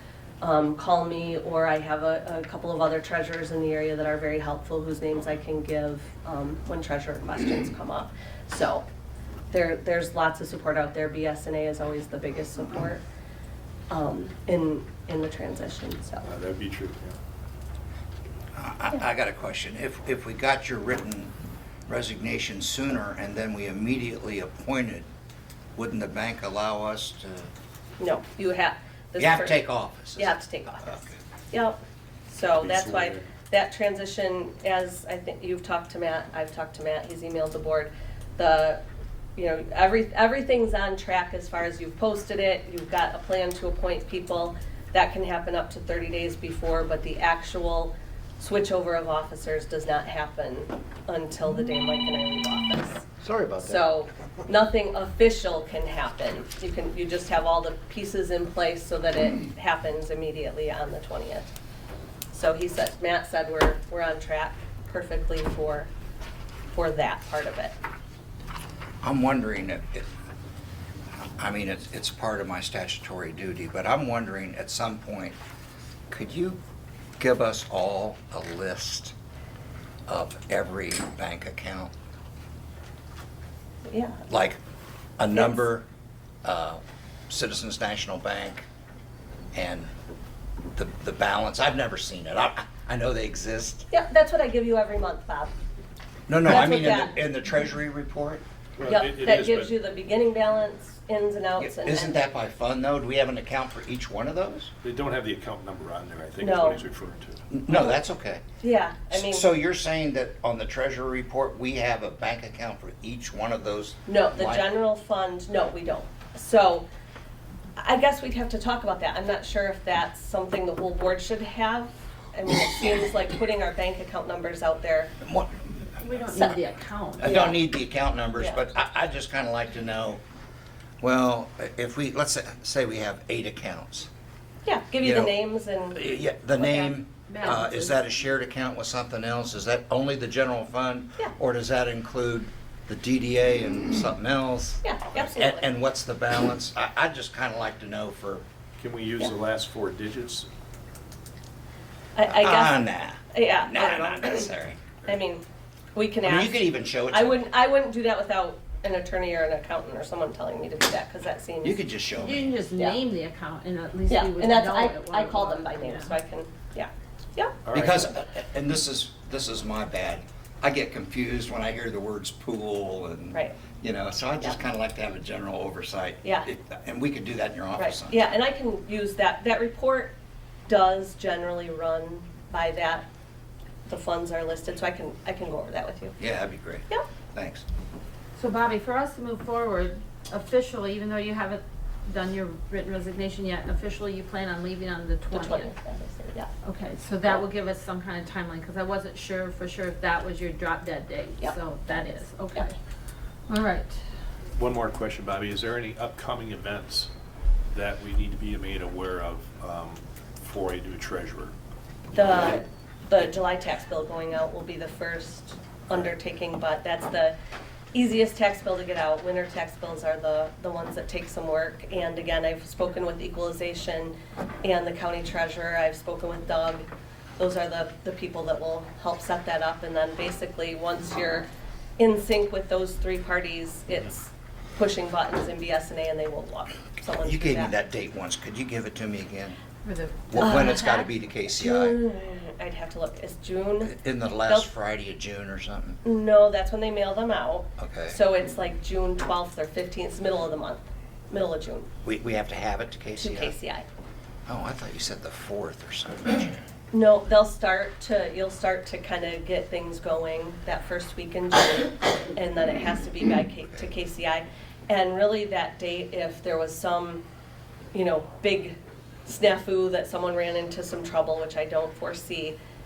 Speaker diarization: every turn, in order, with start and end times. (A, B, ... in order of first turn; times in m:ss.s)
0:00.4-0:08.8 A
0:09.5-0:13.0 A
0:13.9-0:16.3 A
0:16.2-0:17.2 B
0:18.5-0:21.3 C
0:21.9-0:25.1 C
0:25.8-0:27.4 C
0:28.0-0:29.6 A
0:29.2-0:31.2 C
0:30.2-0:38.8 A
0:32.6-0:33.3 B
0:39.4-0:53.0 A
0:53.6-1:01.5 A
1:02.3-1:05.9 A
1:06.7-1:07.7 A
1:09.0-1:10.1 C
1:11.2-1:15.4 C
1:16.1-1:16.6 C
1:17.2-1:19.1 C
1:20.1-1:21.9 C
1:23.8-1:24.2 A
1:24.3-1:24.6 C
1:25.2-1:25.8 C
1:25.3-1:25.6 A
1:26.4-1:28.6 C
1:29.5-1:29.9 C
1:30.7-1:33.9 C
1:33.9-1:35.5 A
1:36.3-1:38.4 C
1:36.4-1:37.2 A
1:38.8-1:39.7 B
1:38.8-1:42.3 A
1:41.6-1:44.7 C
1:44.8-1:47.5 B
1:46.4-1:46.8 A
1:47.5-1:48.4 C
1:47.7-1:48.0 A
1:48.6-1:49.5 A
1:49.1-1:54.7 C
1:54.1-1:56.8 A
1:57.8-2:05.1 A
2:05.2-2:05.5 C
2:06.0-2:07.4 D
2:06.2-2:06.6 C
2:07.2-2:10.2 C
2:07.2-2:07.6 A
2:08.4-2:08.6 A
2:11.0-2:14.1 C
2:14.6-2:17.0 A
2:15.0-2:15.4 C
2:15.9-2:28.4 C
2:17.3-2:18.0 D
2:24.8-2:25.7 A
2:28.8-2:30.5 B
2:32.2-2:34.5 A
2:32.3-2:34.8 C
2:35.0-2:35.4 A
2:35.9-2:41.8 A
2:36.2-2:37.4 C
2:41.6-2:42.4 C
2:42.1-2:46.2 D
2:44.1-2:47.6 A
2:47.6-2:48.1 B
2:47.7-2:58.2 C
2:56.2-2:56.5 A
2:57.8-3:00.1 A
3:00.7-3:03.0 A
3:03.9-3:06.2 A
3:06.2-3:07.6 C
3:08.4-3:15.7 D
3:15.3-3:16.5 A
3:16.6-3:22.8 D
3:21.4-3:22.7 A
3:23.5-3:24.0 D
3:24.6-3:27.1 B
3:27.7-3:31.5 B
3:32.1-3:37.3 A
3:37.9-3:57.7 A
3:57.1-3:59.6 C
3:59.8-4:01.1 D
4:00.3-4:02.0 C
4:00.4-4:00.8 A
4:01.5-4:04.7 A
4:03.8-4:06.0 C
4:06.0-4:11.9 A
4:07.8-4:08.2 C
4:12.0-4:13.5 C
4:13.2-4:13.8 A
4:14.5-4:16.6 C
4:16.9-4:27.2 A
4:27.9-4:32.6 A